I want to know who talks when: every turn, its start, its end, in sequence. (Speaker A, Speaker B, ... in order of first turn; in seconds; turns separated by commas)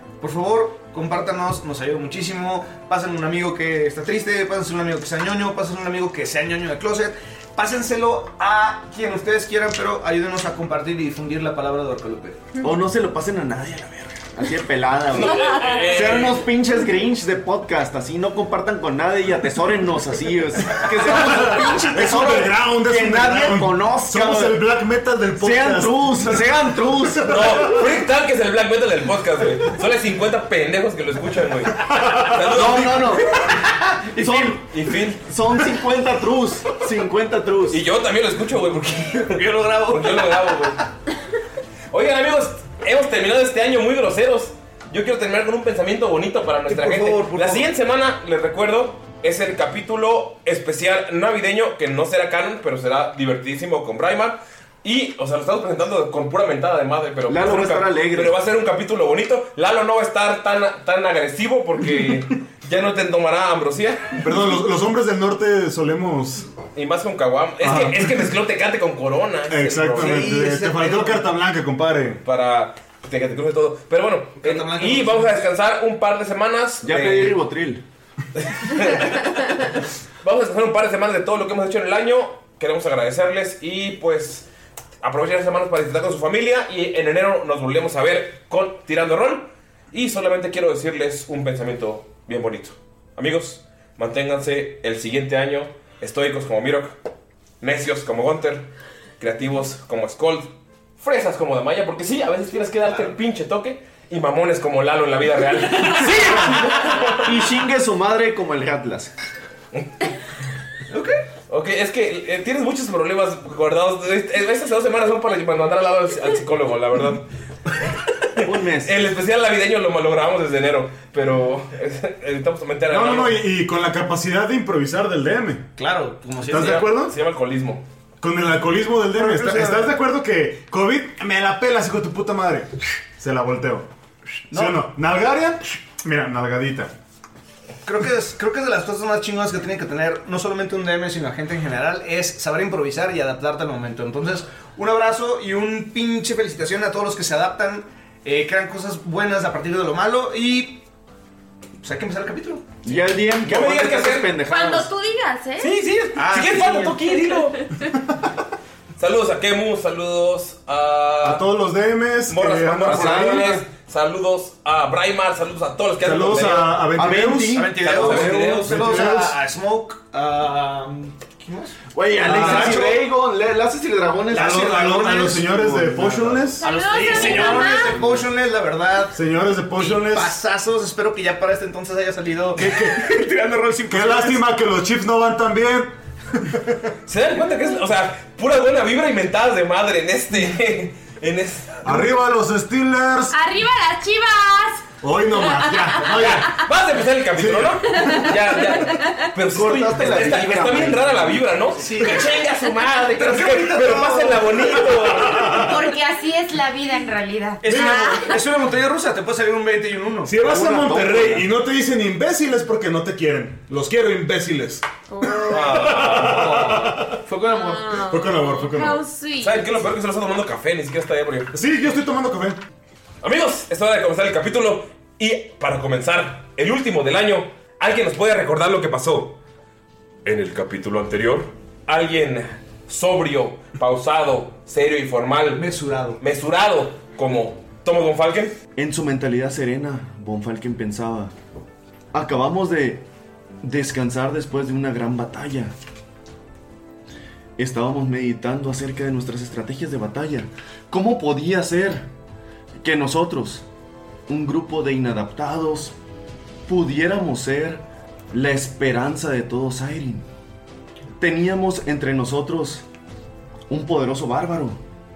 Speaker A: 0.2-12.5, Speaker B: 12.6-24.7, Speaker C: 15.1-16.5, Speaker D: 20.9-26.4, Speaker A: 21.3-21.9, Speaker B: 25.4-27.7, Speaker D: 27.1-27.6, Speaker C: 27.3-33.3, Speaker D: 31.9-32.3, Speaker B: 32.5-33.4, Speaker A: 33.4-34.6, Speaker B: 34.2-34.6, Speaker C: 34.7-35.2, Speaker B: 35.2-37.8, Speaker C: 37.7-40.8, Speaker A: 39.3-40.8, Speaker C: 41.9-64.2, Speaker A: 46.7-47.6, Speaker B: 57.3-58.4, Speaker D: 64.2-66.5, Speaker C: 66.8-70.3, Speaker D: 67.6-68.0, Speaker D: 69.5-72.2, Speaker A: 69.9-71.3, Speaker C: 72.2-77.4, Speaker A: 74.4-75.5, Speaker B: 76.8-77.8, Speaker C: 78.4-84.5, Speaker C: 85.0-97.0, Speaker C: 97.6-98.7, Speaker C: 99.2-107.3, Speaker A: 102.8-103.1, Speaker A: 106.0-106.4, Speaker B: 107.2-109.1, Speaker A: 110.9-111.2, Speaker C: 111.5-117.3, Speaker C: 118.4-123.4, Speaker B: 118.4-119.0, Speaker D: 122.9-125.7, Speaker A: 125.8-126.9, Speaker D: 126.5-127.2, Speaker C: 126.6-127.8, Speaker D: 128.2-133.9, Speaker A: 129.1-129.9, Speaker A: 134.5-134.8, Speaker D: 134.5-136.9, Speaker A: 137.8-150.8, Speaker A: 151.8-152.8, Speaker B: 152.8-154.9, Speaker C: 153.4-154.3, Speaker E: 154.5-155.7, Speaker C: 155.6-157.6, Speaker A: 156.1-157.1, Speaker C: 159.0-161.4, Speaker D: 161.2-163.6, Speaker C: 162.3-166.8, Speaker B: 162.8-163.6, Speaker D: 166.0-167.6, Speaker B: 167.0-168.5, Speaker A: 167.5-173.1, Speaker C: 167.8-168.8, Speaker D: 168.2-169.4, Speaker B: 171.9-176.5, Speaker D: 172.3-172.8, Speaker A: 174.3-175.6, Speaker D: 174.4-176.6, Speaker A: 176.6-184.4, Speaker E: 176.6-177.9, Speaker D: 179.1-180.4, Speaker D: 182.6-183.1, Speaker D: 183.9-186.7, Speaker C: 187.1-192.1, Speaker D: 191.8-193.4, Speaker E: 193.3-194.9, Speaker D: 195.0-196.6, Speaker E: 195.4-196.0, Speaker C: 196.1-205.7, Speaker D: 197.4-198.3, Speaker E: 197.9-199.2, Speaker B: 199.5-201.4, Speaker A: 201.8-202.4, Speaker A: 203.1-205.4, Speaker F: 205.5-208.3, Speaker A: 207.6-210.4, Speaker D: 207.7-208.1, Speaker D: 210.3-217.2, Speaker B: 210.4-211.5, Speaker E: 215.1-215.5, Speaker C: 215.5-216.6, Speaker A: 215.9-218.0, Speaker E: 217.5-219.7, Speaker D: 218.1-219.0, Speaker C: 219.4-221.5, Speaker D: 221.5-222.6, Speaker C: 223.2-229.4, Speaker C: 230.2-238.6, Speaker A: 235.5-236.2, Speaker B: 238.8-241.3, Speaker B: 242.1-243.0, Speaker B: 243.6-245.8, Speaker B: 247.6-252.1, Speaker B: 252.8-253.7, Speaker B: 254.3-255.9, Speaker B: 256.7-260.3, Speaker B: 261.2-262.9, Speaker B: 263.7-264.8